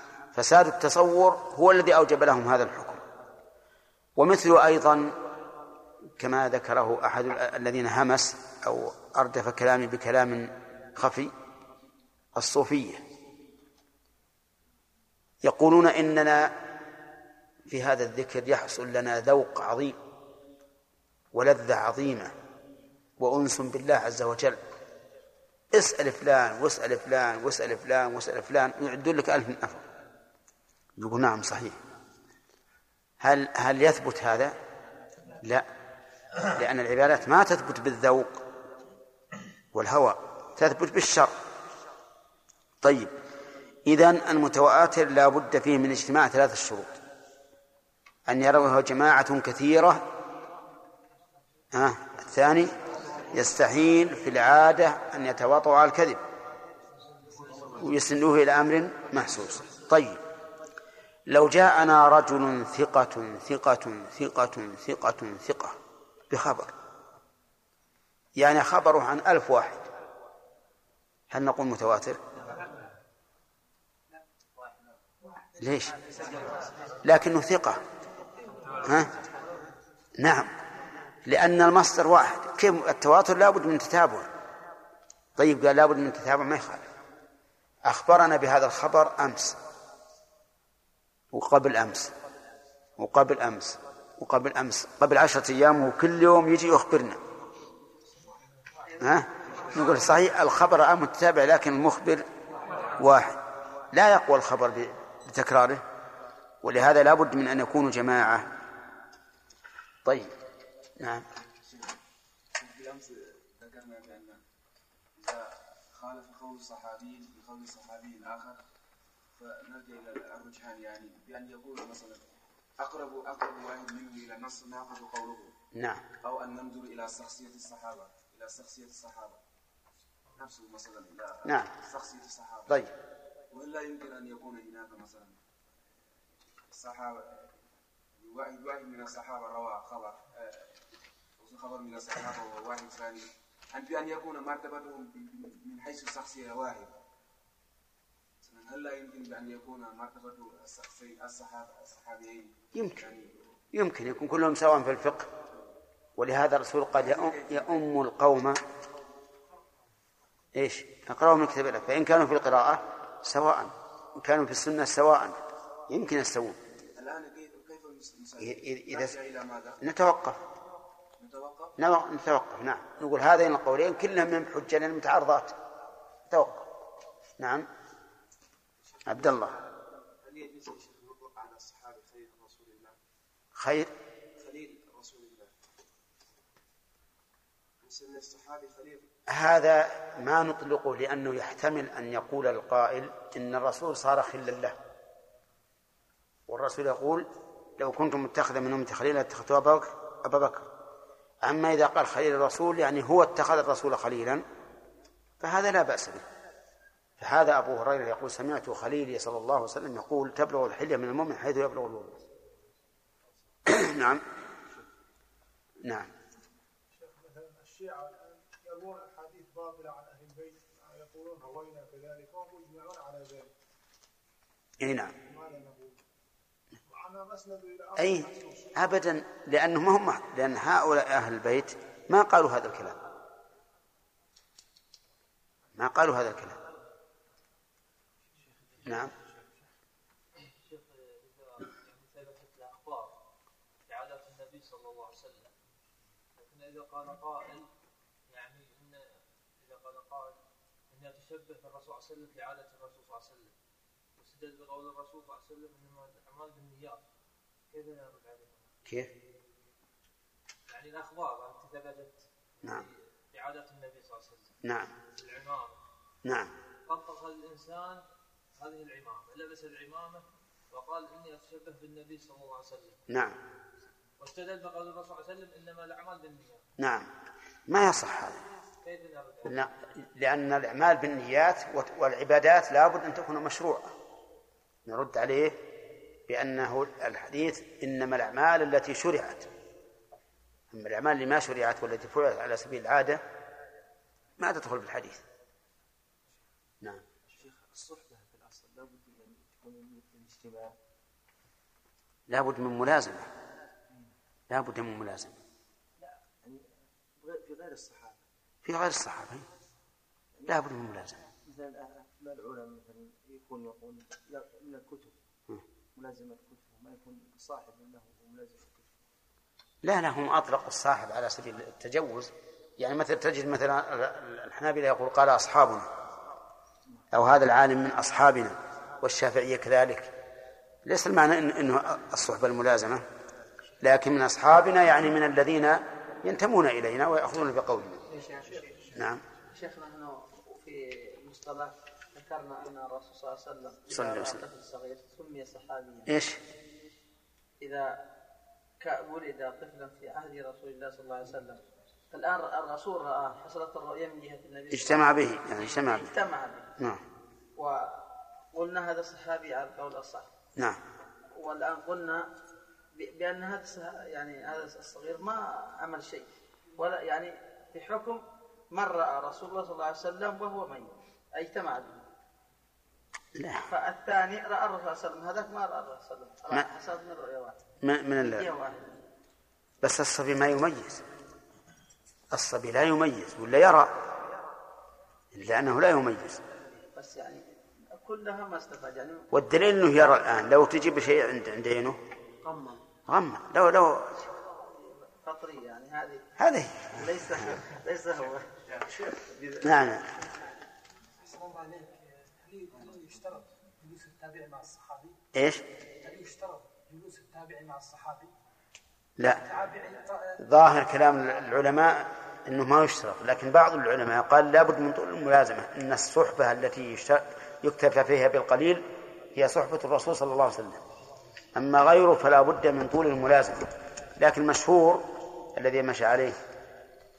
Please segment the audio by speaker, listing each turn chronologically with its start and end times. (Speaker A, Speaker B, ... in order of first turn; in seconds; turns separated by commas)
Speaker A: 0.3-3.0, Speaker A: 4.2-5.1, Speaker A: 6.2-11.3, Speaker A: 12.3-13.0, Speaker A: 15.4-16.5, Speaker A: 17.7-20.0, Speaker A: 21.3-22.3, Speaker A: 23.2-24.6, Speaker A: 25.7-29.8, Speaker A: 31.0-31.8, Speaker A: 33.2-34.5, Speaker A: 35.4-35.7, Speaker A: 36.5-38.3, Speaker A: 39.7-41.3, Speaker A: 42.8-43.1, Speaker A: 43.9-47.0, Speaker A: 48.3-50.0, Speaker A: 51.7-52.7, Speaker A: 53.3-56.2, Speaker A: 57.7-60.2, Speaker A: 61.3-65.8, Speaker A: 66.3-66.7, Speaker A: 68.3-69.8, Speaker A: 71.3-72.2, Speaker A: 75.6-76.0, Speaker A: 77.0-77.8, Speaker A: 78.8-79.1, Speaker A: 80.2-80.5, Speaker A: 81.2-84.3, Speaker A: 85.4-86.8, Speaker A: 87.8-89.6, Speaker A: 91.3-92.1, Speaker A: 93.0-97.2, Speaker A: 99.0-102.2, Speaker A: 103.0-103.4, Speaker A: 103.9-105.8, Speaker A: 106.6-108.5, Speaker A: 110.0-110.3, Speaker A: 111.0-111.2, Speaker B: 111.6-111.9, Speaker B: 112.5-114.4, Speaker B: 115.2-118.6, Speaker B: 119.3-125.5, Speaker A: 125.7-126.0, Speaker B: 126.2-129.4, Speaker B: 130.3-132.8, Speaker A: 131.4-131.7, Speaker B: 133.5-135.4, Speaker B: 136.7-140.8, Speaker B: 141.4-146.9, Speaker B: 148.4-153.5, Speaker A: 152.7-153.0, Speaker A: 153.7-155.3, Speaker A: 156.2-158.6, Speaker B: 157.1-157.6, Speaker A: 160.5-165.4, Speaker A: 165.9-166.6, Speaker B: 166.9-169.8, Speaker A: 168.4-169.1, Speaker A: 169.8-170.4, Speaker B: 171.2-171.7, Speaker A: 171.8-175.6, Speaker A: 176.3-176.6, Speaker A: 177.4-177.7, Speaker B: 179.1-179.6, Speaker A: 179.1-179.5, Speaker B: 180.2-183.0, Speaker A: 183.6-183.9, Speaker B: 184.4-185.5, Speaker B: 187.8-189.1, Speaker A: 189.3-194.8, Speaker A: 196.5-197.2, Speaker A: 197.8-200.7, Speaker A: 201.4-204.4, Speaker A: 205.4-206.2, Speaker A: 207.2-212.2, Speaker A: 213.7-214.2, Speaker A: 215.8-216.1, Speaker C: 216.9-223.5, Speaker A: 224.8-225.1, Speaker C: 225.2-226.0, Speaker C: 226.8-228.8, Speaker A: 228.0-232.9, Speaker A: 235.8-236.6, Speaker A: 238.8-239.1, Speaker D: 240.3-243.1, Speaker D: 243.9-245.5, Speaker D: 246.4-247.7, Speaker D: 248.3-253.5, Speaker D: 254.2-257.0, Speaker D: 257.7-258.7, Speaker D: 260.7-264.5, Speaker A: 264.6-264.9, Speaker D: 265.1-265.8, Speaker A: 266.2-266.5, Speaker D: 266.9-268.0, Speaker D: 268.5-273.0, Speaker A: 273.1-273.4, Speaker D: 274.2-276.6, Speaker A: 276.8-277.1, Speaker A: 277.7-278.4, Speaker D: 278.8-279.7, Speaker A: 279.4-283.9, Speaker A: 284.9-285.6, Speaker A: 286.3-289.5, Speaker A: 290.7-293.2, Speaker A: 294.4-295.2, Speaker E: 297.3-300.8, Speaker A: 302.3-303.3, Speaker A: 304.5-305.4, Speaker E: 306.4-308.2, Speaker A: 308.6-309.5, Speaker E: 310.4-310.6, Speaker A: 310.4-311.2, Speaker E: 311.4-315.1, Speaker E: 315.9-319.0, Speaker A: 319.8-325.9, Speaker A: 327.1-330.1, Speaker A: 330.8-333.0, Speaker A: 333.8-338.0, Speaker A: 338.9-339.2, Speaker F: 339.5-346.1, Speaker A: 343.9-344.4, Speaker A: 346.1-346.4, Speaker F: 347.6-348.0, Speaker F: 348.8-356.7, Speaker A: 354.7-356.1, Speaker F: 357.6-360.3, Speaker F: 361.3-362.2, Speaker F: 362.9-372.0, Speaker A: 373.4-373.7, Speaker F: 373.6-377.6, Speaker A: 377.8-378.4, Speaker F: 378.2-378.9, Speaker A: 379.8-381.0, Speaker A: 382.3-383.9, Speaker A: 385.3-386.4, Speaker F: 386.9-389.3, Speaker A: 389.3-392.0, Speaker F: 392.4-392.8, Speaker A: 393.1-394.1, Speaker F: 394.7-396.3, Speaker A: 396.4-396.9, Speaker F: 396.9-399.7, Speaker A: 399.6-400.0, Speaker C: 401.2-405.2, Speaker A: 405.3-405.6, Speaker C: 406.0-408.3, Speaker C: 409.4-410.4, Speaker A: 410.4-420.8, Speaker A: 421.5-426.4